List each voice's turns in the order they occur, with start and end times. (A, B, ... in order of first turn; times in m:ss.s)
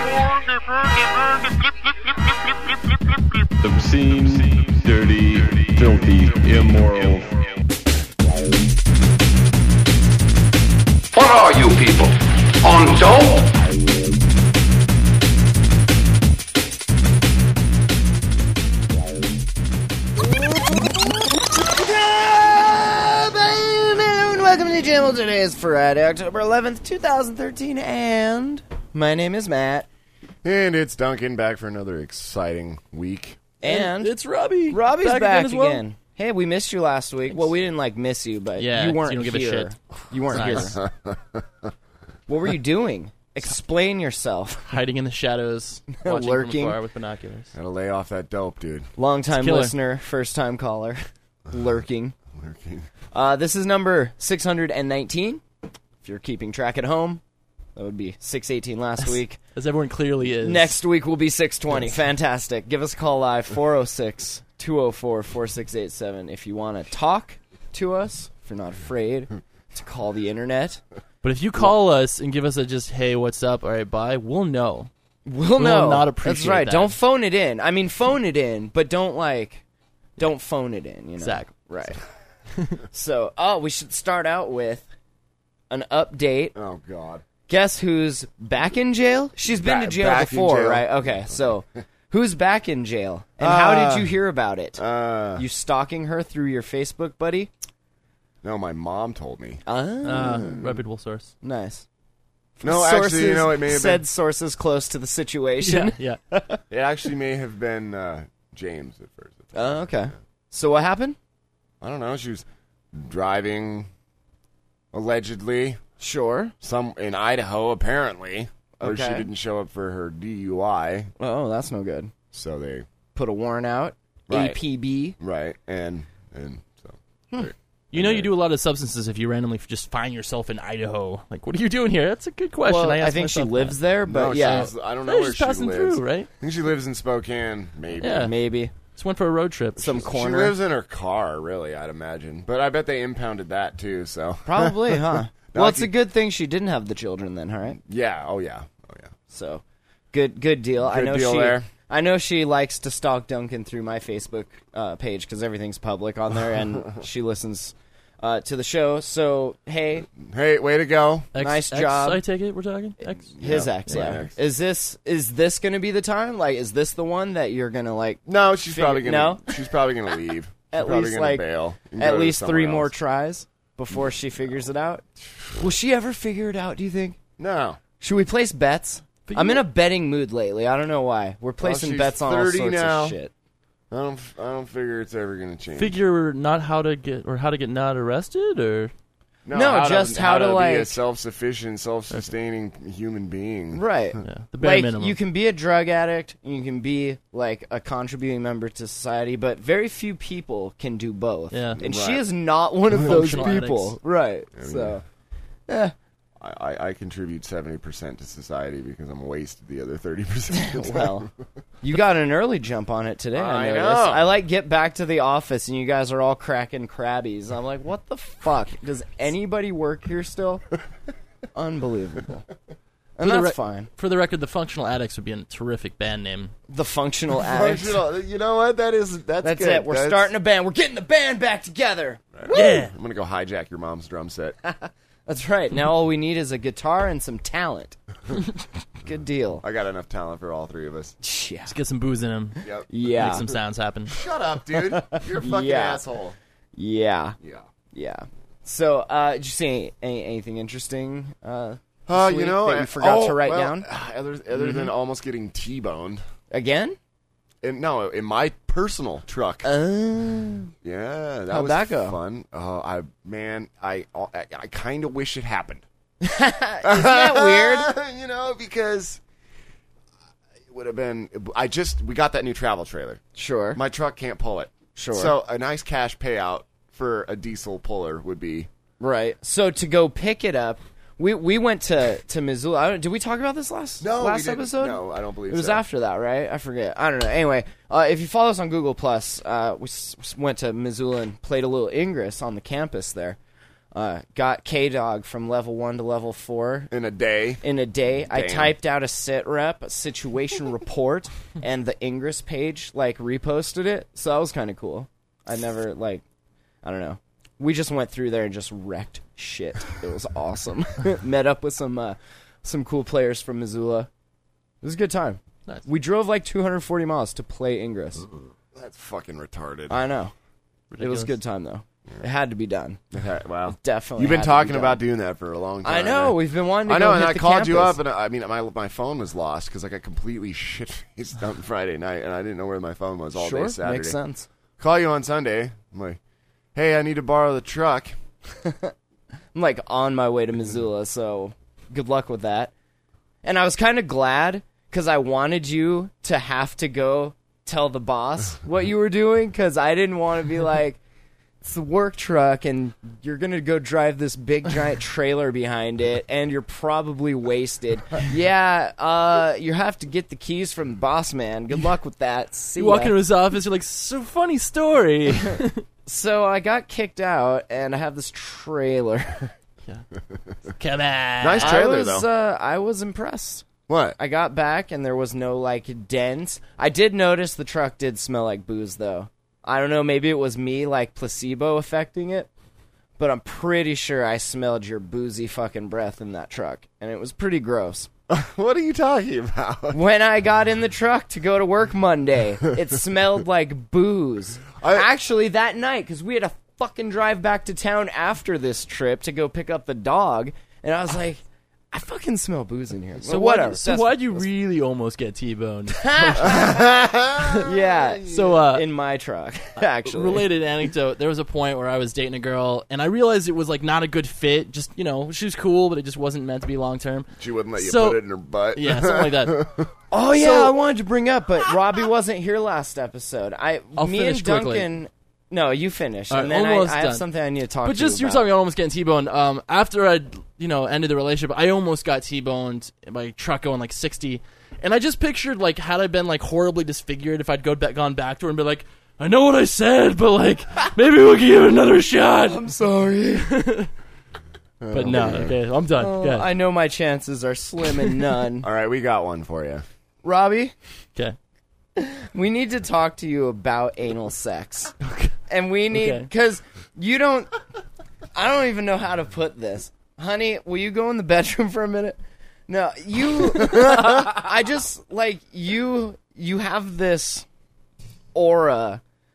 0:03.6-0:07.4 A
0:11.1-0:13.6 B
0:21.6-0:29.9 C
0:30.4-0:33.4 D
0:33.6-0:34.2 C
0:33.6-0:35.8 E
0:34.7-0:40.8 C
0:38.6-0:39.8 E
0:40.3-0:40.8 E
0:40.6-0:41.7 D
0:42.3-0:44.7 C
0:44.7-0:47.5 E
0:46.0-0:46.8 C
0:47.5-0:48.9 D
0:49.0-0:52.2 C
0:49.3-0:49.8 E
0:52.3-0:52.9 D
0:53.1-0:55.4 C
0:56.0-0:57.2 C
0:57.8-0:59.4 C
0:59.0-1:00.8 E
1:00.4-1:10.8 C
1:11.2-1:14.9 E
1:15.3-1:19.6 C
1:15.6-1:17.0 E
1:20.2-1:22.0 C
1:21.2-1:21.5 E
1:22.9-1:24.9 C
1:25.7-1:26.6 C
1:26.6-1:27.2 D
1:27.5-1:34.8 C
1:29.5-1:31.5 D
1:33.4-1:34.2 D
1:34.8-1:35.4 D
1:35.4-1:37.5 C
1:38.4-1:39.6 D
1:39.7-1:40.7 C
1:40.0-1:41.3 E
1:40.2-1:40.5 D
1:41.4-1:41.8 C
1:42.6-1:44.0 D
1:42.6-1:46.6 C
1:45.6-1:46.2 E
1:46.7-1:50.0 D
1:49.5-1:51.2 C
1:51.8-1:53.9 D
1:54.9-1:55.8 D
1:56.0-1:56.6 C
1:56.6-2:01.1 D
1:58.8-1:59.3 C
2:01.2-2:02.1 C
2:02.3-2:02.9 D
2:03.2-2:05.2 C
2:04.3-2:04.6 D
2:05.2-2:08.3 D
2:07.9-2:13.8 E
2:12.6-2:14.7 C
2:14.0-2:18.3 D
2:14.4-2:16.3 E
2:18.0-2:19.9 E
2:18.0-2:18.7 C
2:19.8-2:20.6 C
2:19.8-2:25.9 D
2:24.5-2:27.8 C
2:27.9-2:29.1 D
2:29.3-2:40.1 C
2:30.8-2:31.7 D
2:40.2-2:41.3 D
2:41.3-2:43.3 E
2:41.4-2:42.2 C
2:43.1-2:49.7 C
2:43.4-2:44.4 D
2:43.9-2:44.2 E
2:48.3-2:52.9 D
2:50.7-2:55.0 C
2:55.6-2:57.2 C
2:57.4-2:57.8 D
2:58.0-3:03.3 C
2:59.3-2:59.6 E
3:01.6-3:03.2 D
3:03.9-3:06.0 D
3:05.7-3:08.9 E
3:09.5-3:13.8 D
3:09.5-3:11.0 C
3:13.7-3:25.0 C
3:14.2-3:15.2 E
3:21.5-3:21.8 E
3:21.8-3:22.2 D
3:22.9-3:23.6 D
3:22.9-3:24.0 E
3:24.6-3:25.0 D
3:25.7-3:25.9 C
3:26.4-3:31.3 D
3:30.5-3:31.3 C
3:31.8-3:40.6 C
3:33.3-3:34.3 D
3:41.6-3:42.5 C
3:43.2-3:43.9 C
3:43.2-3:46.5 E
3:46.7-3:48.0 C
3:47.4-3:50.3 D
3:49.4-3:52.8 C
3:52.4-3:54.6 D
3:52.5-3:52.9 E
3:54.6-3:58.0 C
3:59.0-3:59.6 C
3:59.6-4:01.2 D
4:01.2-4:01.8 C
4:01.7-4:02.6 E
4:02.9-4:03.5 C
4:03.1-4:04.2 E
4:04.1-4:06.4 D
4:05.0-4:06.0 C
4:06.8-4:07.4 C
4:07.4-4:07.6 D
4:07.9-4:13.9 C
4:12.1-4:16.2 D
4:16.5-4:17.0 C
4:17.6-4:19.7 D
4:19.6-4:20.7 C
4:20.8-4:25.8 D
4:21.5-4:22.2 C
4:26.2-4:27.9 C
4:26.8-4:29.2 D
4:30.7-4:33.2 D
4:33.4-4:33.8 C
4:33.7-4:38.7 D
4:35.0-4:35.4 C
4:39.0-4:53.4 C
4:44.0-4:45.8 D
4:53.9-4:56.9 C
4:56.9-4:57.6 D
4:57.6-5:06.2 C
4:58.3-4:58.8 D
5:06.8-5:14.1 C
5:14.8-5:18.3 C
5:18.7-5:20.0 D
5:19.9-5:20.3 C
5:20.9-5:21.4 E
5:21.0-5:23.0 C
5:23.1-5:34.2 D
5:23.7-5:25.0 C
5:25.8-5:28.0 C
5:33.3-5:34.5 C
5:34.8-5:36.2 D
5:36.8-5:38.2 D
5:38.6-5:38.9 C
5:39.5-5:42.7 C
5:43.4-5:51.0 C
5:51.6-6:03.2 C
6:02.8-6:05.8 E
6:06.1-6:09.5 C
6:10.7-6:11.8 E
6:11.4-6:12.3 D
6:11.6-6:13.7 C
6:13.9-6:14.2 D
6:14.2-6:22.5 C
6:23.2-6:28.1 C
6:28.3-6:30.0 D
6:29.9-6:44.5 C
6:34.8-6:35.1 D
6:43.2-6:46.8 E
6:46.0-6:46.8 C
6:46.4-6:48.6 D
6:47.6-6:50.5 C
6:48.3-6:48.9 E
6:50.0-6:59.6 E
6:57.4-6:59.9 D
7:00.1-7:08.5 C
7:00.4-7:00.7 E
7:04.0-7:04.9 E
7:06.3-7:07.3 E
7:07.8-7:22.7 E
7:22.4-7:23.5 C
7:23.4-7:23.9 E
7:24.8-7:25.6 D
7:24.9-7:26.5 E
7:26.0-7:28.7 C
7:28.6-7:29.9 D
7:30.2-7:30.7 C
7:32.0-7:34.9 C
7:35.0-7:35.3 E
7:35.5-7:37.6 C
7:35.9-7:36.3 E
7:38.4-7:47.5 C
7:48.4-7:49.0 C